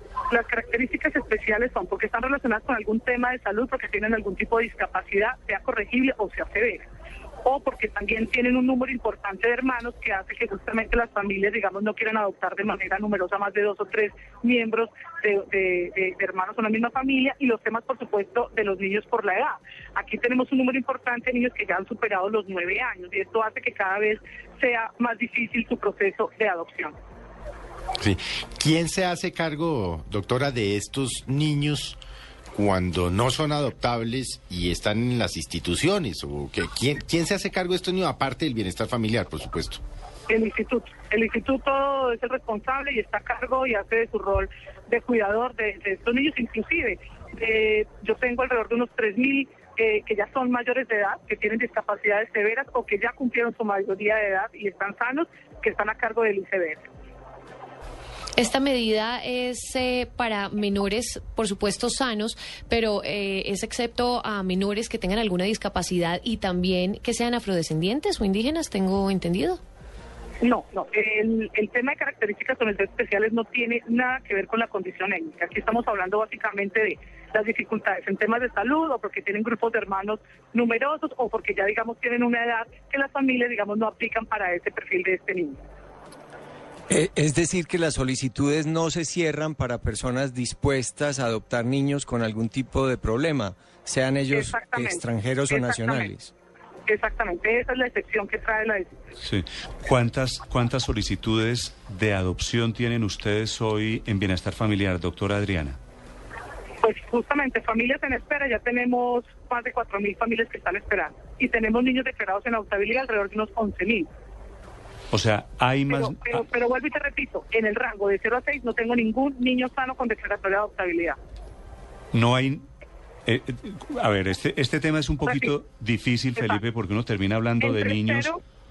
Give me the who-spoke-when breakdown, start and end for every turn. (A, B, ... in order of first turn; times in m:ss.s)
0:00.3-0:06.8 A
0:07.4-0:26.9 A
0:28.0-0:32.0 B
0:32.5-0:39.8 B
0:40.3-0:56.8 A
0:58.4-1:09.6 C
1:10.4-1:25.6 A
1:26.9-1:36.3 D
1:34.3-1:36.1 A
1:36.8-1:38.9 A
1:39.2-1:45.8 E
1:46.8-1:54.1 A
1:55.1-1:56.2 E
1:55.9-2:01.2 A
2:02.1-2:02.6 E
2:03.2-2:08.3 E
2:05.2-2:05.5 A
2:07.6-2:08.4 A